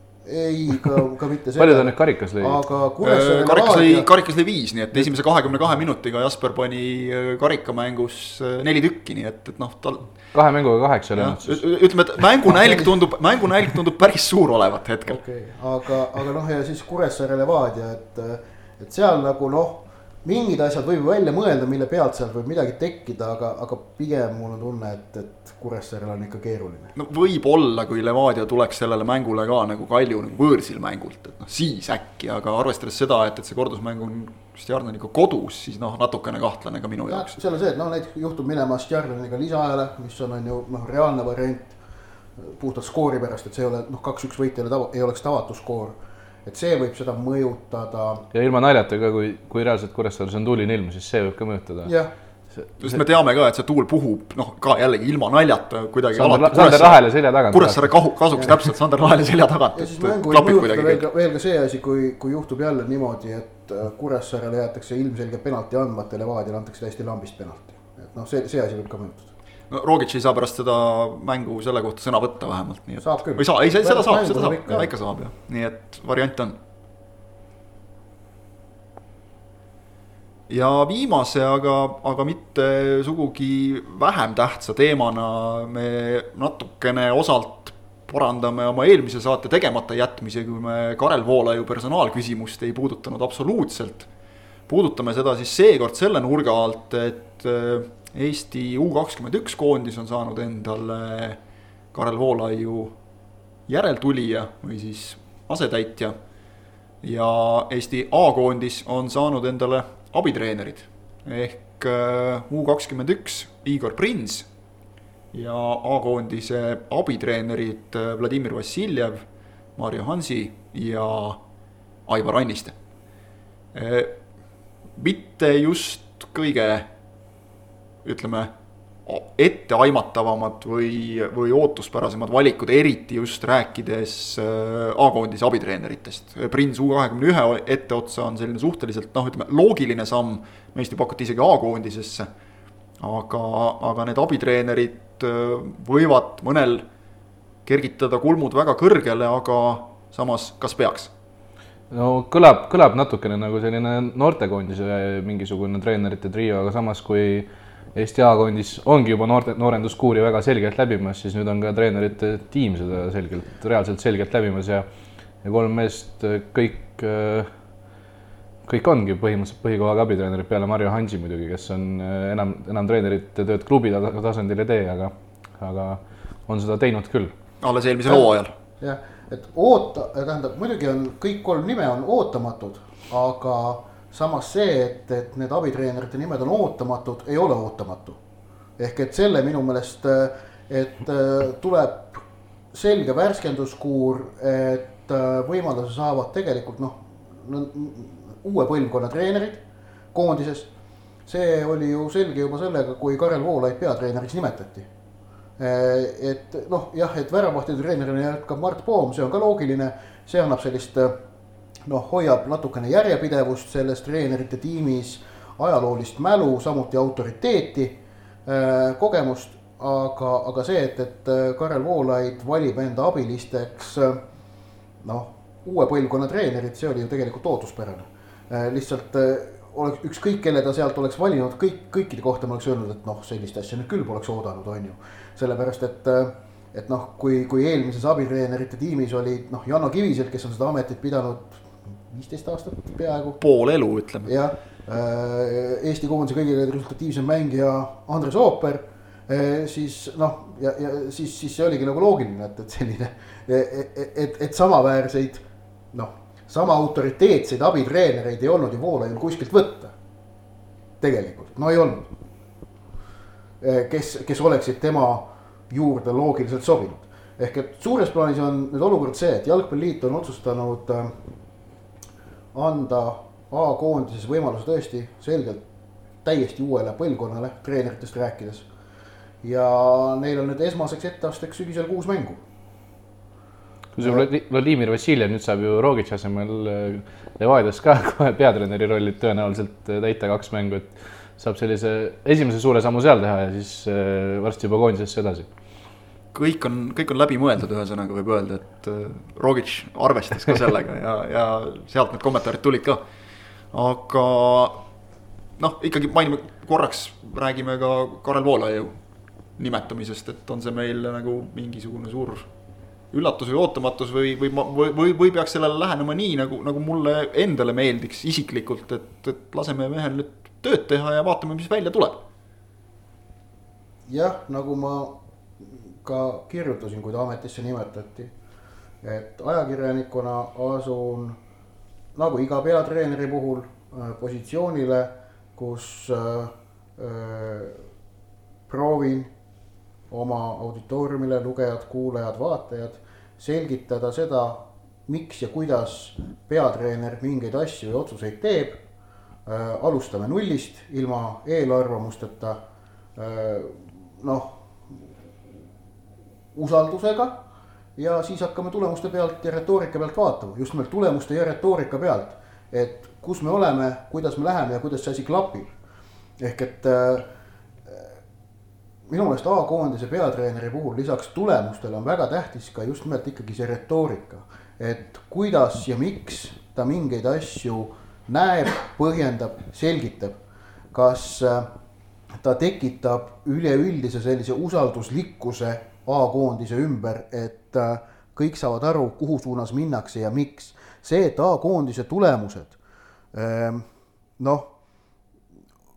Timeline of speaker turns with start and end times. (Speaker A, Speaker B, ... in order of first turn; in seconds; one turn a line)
Speaker A: 0.2-4.1
Speaker B: 1.6-2.6
Speaker C: 3.0-10.1
Speaker B: 10.3-11.6
Speaker C: 11.2-15.2
Speaker A: 12.5-12.9
Speaker A: 15.1-26.9
Speaker C: 26.9-37.4
Speaker A: 37.0-41.8
Speaker A: 42.4-48.2
Speaker B: 48.3-51.9
Speaker A: 51.8-52.1
Speaker B: 52.5-52.9
Speaker C: 52.8-61.0
Speaker B: 56.1-57.9
Speaker A: 59.7-69.3
Speaker C: 69.7-76.6
Speaker A: 73.0-74.9
Speaker C: 80.5-94.1
Speaker C: 94.7-101.4
Speaker C: 101.9-102.9
Speaker C: 103.7-106.2
Speaker C: 107.0-114.5
Speaker C: 115.3-119.2
Speaker C: 119.8-121.4
Speaker C: 122.1-122.8
Speaker C: 123.7-124.2
Speaker C: 125.0-126.9
Speaker C: 128.0-128.5
Speaker C: 129.1-142.3
Speaker C: 143.0-146.8
Speaker C: 147.7-151.1
Speaker B: 151.9-164.9
Speaker B: 165.4-167.5
Speaker B: 168.6-177.3
Speaker C: 177.6-178.5
Speaker A: 178.8-188.2
Speaker A: 188.8-200.7
Speaker A: 201.2-204.9
Speaker A: 205.6-211.1
Speaker A: 211.9-224.2
Speaker A: 225.0-243.4
Speaker C: 243.4-244.3
Speaker A: 244.2-259.9
Speaker A: 261.0-262.1
Speaker A: 263.6-271.1
Speaker A: 272.5-275.6
Speaker A: 276.2-278.6
Speaker A: 279.4-282.4
Speaker B: 283.9-295.5
Speaker A: 284.0-284.3
Speaker C: 296.3-303.0
Speaker C: 303.7-304.8
Speaker C: 305.6-308.9
Speaker C: 309.6-312.5
Speaker C: 313.1-322.2
Speaker A: 324.1-328.3
Speaker A: 329.0-331.4
Speaker A: 332.1-337.8
Speaker A: 338.7-339.3
Speaker A: 340.1-348.8
Speaker A: 349.4-352.6
Speaker A: 353.1-355.0
Speaker A: 356.5-357.4
Speaker A: 358.0-365.7
Speaker A: 366.4-367.3
Speaker A: 367.9-368.1
Speaker A: 369.1-380.4
Speaker A: 380.9-381.7
Speaker A: 382.4-392.8
Speaker A: 393.3-393.9
Speaker A: 394.4-394.7